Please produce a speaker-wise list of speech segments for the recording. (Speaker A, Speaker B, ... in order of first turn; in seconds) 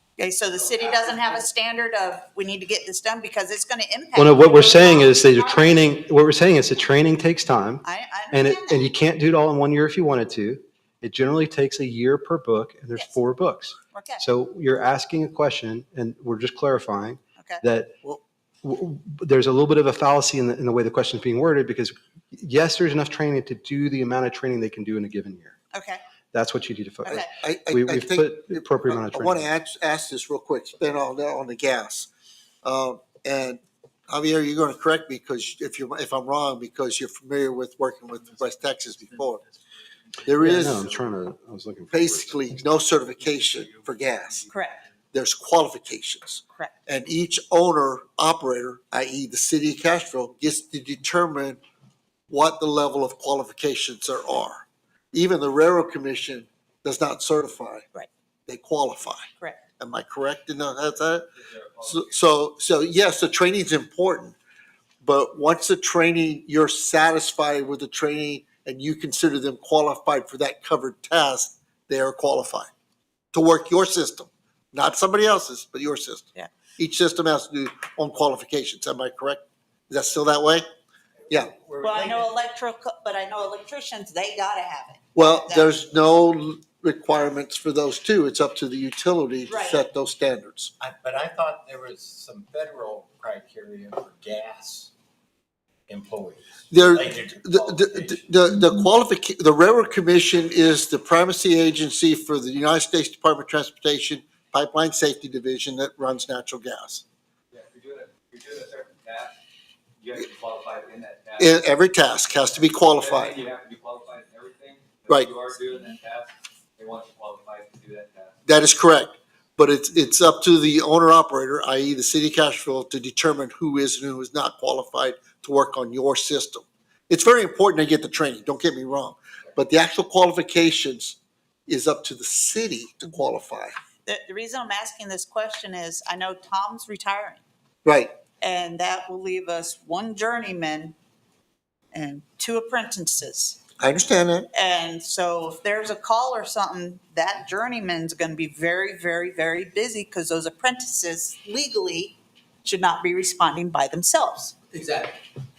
Speaker A: 0.2-5.8, 7.8-8.8, 13.9-14.2, 25.7-26.0, 44.5-44.8, 81.8-85.7, 89.5-89.8, 134.1-137.4, 138.4-140.9, 141.9-143.6, 144.5-154.6
Speaker B: 4.2-17.9, 18.6-25.6, 26.3-29.4, 40.4-42.4
Speaker C: 27.4-32.1, 32.6-39.4, 40.2-41.0, 41.9-44.5, 45.1-51.6, 52.3-57.9, 58.5-59.3, 59.8-61.2, 61.8-64.3, 65.0-72.7, 73.3-80.6, 85.1-90.7, 96.7-107.0, 111.4-113.3, 118.5-133.7, 137.8-138.1, 143.8-144.5
Speaker D: 61.4-62.2, 107.5-109.3, 110.0-111.5, 112.9-118.3
Speaker E: 81.5-82.3, 90.8-94.9, 95.9-98.3